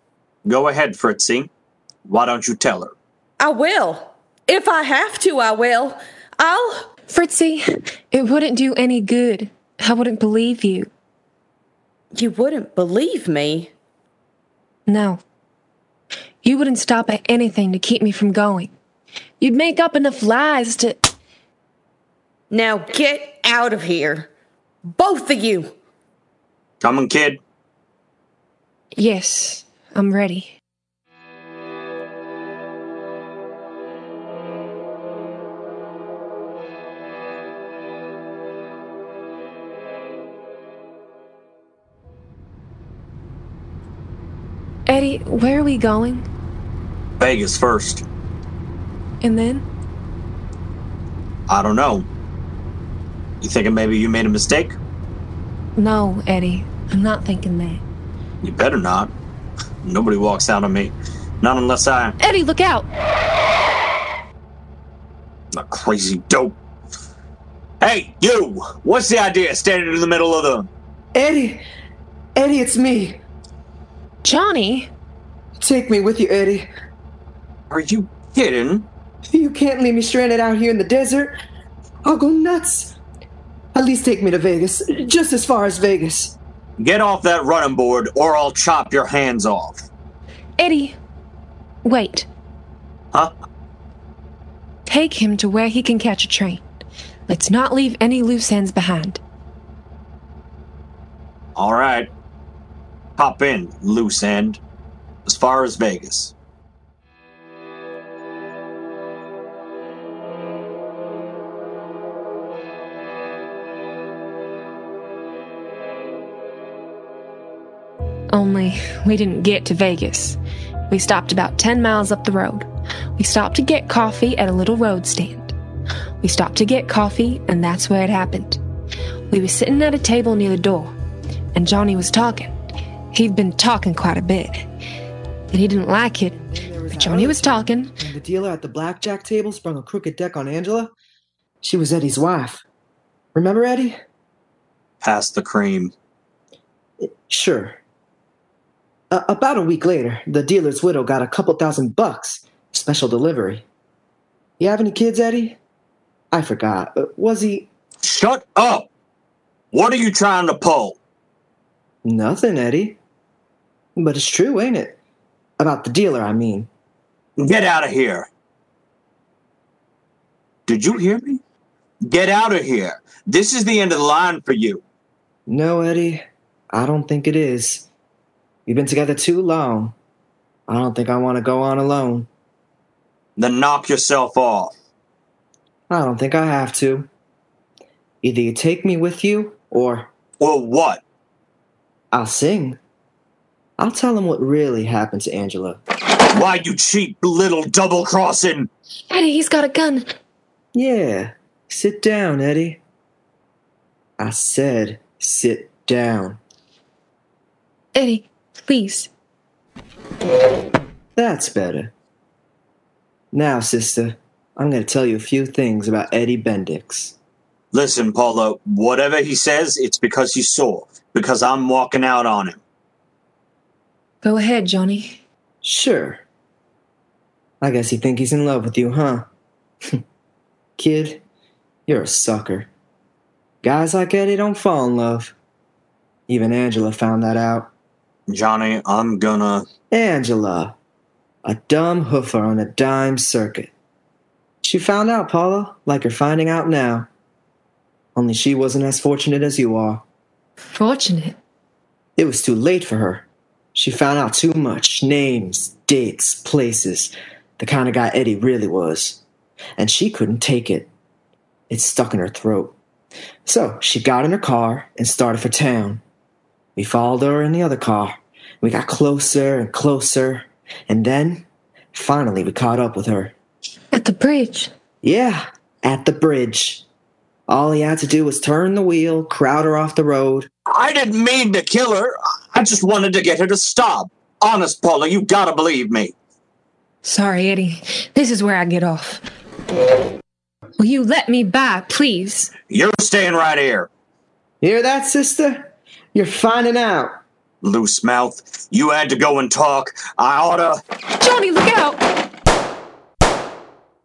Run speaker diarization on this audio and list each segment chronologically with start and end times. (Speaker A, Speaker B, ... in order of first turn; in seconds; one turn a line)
Speaker A: 0.5-1.5
Speaker A: 2.1-2.9
Speaker B: 3.4-6.9
Speaker C: 7.1-10.9
Speaker B: 12.1-13.7
Speaker C: 14.9-15.2
Speaker C: 16.4-18.7
Speaker C: 19.4-21.0
Speaker B: 22.5-24.3
Speaker B: 24.9-25.7
Speaker A: 26.8-27.4
Speaker C: 29.0-30.6
Speaker C: 44.9-46.3
Speaker A: 47.2-48.0
Speaker C: 49.2-49.6
Speaker A: 51.5-52.1
Speaker A: 53.4-54.8
Speaker C: 55.8-57.8
Speaker A: 58.4-59.1
Speaker A: 59.8-62.2
Speaker C: 62.2-62.9
Speaker A: 65.5-66.6
Speaker A: 67.8-70.7
Speaker D: 71.1-71.6
Speaker D: 72.3-73.2
Speaker C: 74.2-74.9
Speaker D: 75.6-76.7
Speaker A: 77.7-78.9
Speaker D: 79.3-81.4
Speaker D: 82.0-83.0
Speaker D: 83.7-86.4
Speaker A: 86.8-89.9
Speaker C: 90.6-91.0
Speaker C: 91.8-92.3
Speaker C: 94.9-96.6
Speaker C: 97.3-99.2
Speaker A: 101.6-102.1
Speaker A: 103.2-104.6
Speaker A: 105.3-106.3
Speaker C: 118.3-120.4
Speaker C: 120.9-125.5
Speaker C: 126.2-128.6
Speaker C: 129.3-130.9
Speaker C: 131.5-132.5
Speaker C: 133.1-134.7
Speaker C: 135.5-136.4
Speaker D: 136.3-140.9
Speaker C: 136.9-137.9
Speaker D: 141.6-142.6
Speaker D: 143.3-144.0
Speaker A: 145.0-145.9
Speaker D: 147.0-147.8
Speaker D: 149.1-153.7
Speaker D: 154.6-155.6
Speaker D: 156.3-157.7
Speaker A: 158.0-158.9
Speaker A: 159.7-161.0
Speaker D: 162.0-163.0
Speaker D: 164.0-165.0
Speaker D: 165.6-166.7
Speaker A: 167.4-168.3
Speaker A: 170.7-171.4
Speaker A: 172.0-174.8
Speaker D: 175.5-177.9
Speaker D: 178.7-179.9
Speaker D: 180.7-182.3
Speaker A: 183.4-184.7
Speaker D: 185.9-187.1
Speaker D: 188.2-190.1
Speaker A: 190.4-191.0
Speaker D: 192.1-192.8
Speaker D: 193.8-195.8
Speaker A: 196.3-198.7
Speaker C: 199.1-200.1
Speaker D: 200.7-202.8
Speaker D: 204.2-206.4
Speaker C: 207.9-209.1
Speaker D: 211.2-211.9
Speaker D: 213.3-217.2
Speaker A: 217.7-222.6
Speaker C: 224.2-225.2
Speaker D: 225.6-226.2
Speaker D: 227.6-229.2
Speaker D: 230.8-231.2
Speaker D: 231.9-232.7
Speaker D: 233.6-235.3
Speaker D: 236.3-237.7
Speaker A: 238.3-239.7
Speaker D: 239.9-240.8
Speaker D: 241.4-243.7
Speaker D: 244.6-247.1
Speaker D: 248.2-250.0
Speaker C: 250.7-251.4
Speaker D: 252.2-259.2
Speaker D: 259.8-260.9
Speaker D: 261.7-262.8
Speaker D: 263.5-266.0
Speaker D: 266.8-273.3
Speaker C: 273.9-274.7
Speaker D: 275.0-276.8
Speaker D: 277.5-280.5
Speaker A: 280.7-286.1
Speaker C: 287.0-289.2
Speaker C: 290.8-292.5
Speaker A: 292.7-293.9
Speaker D: 294.6-297.2
Speaker A: 297.6-300.8
Speaker C: 301.2-302.0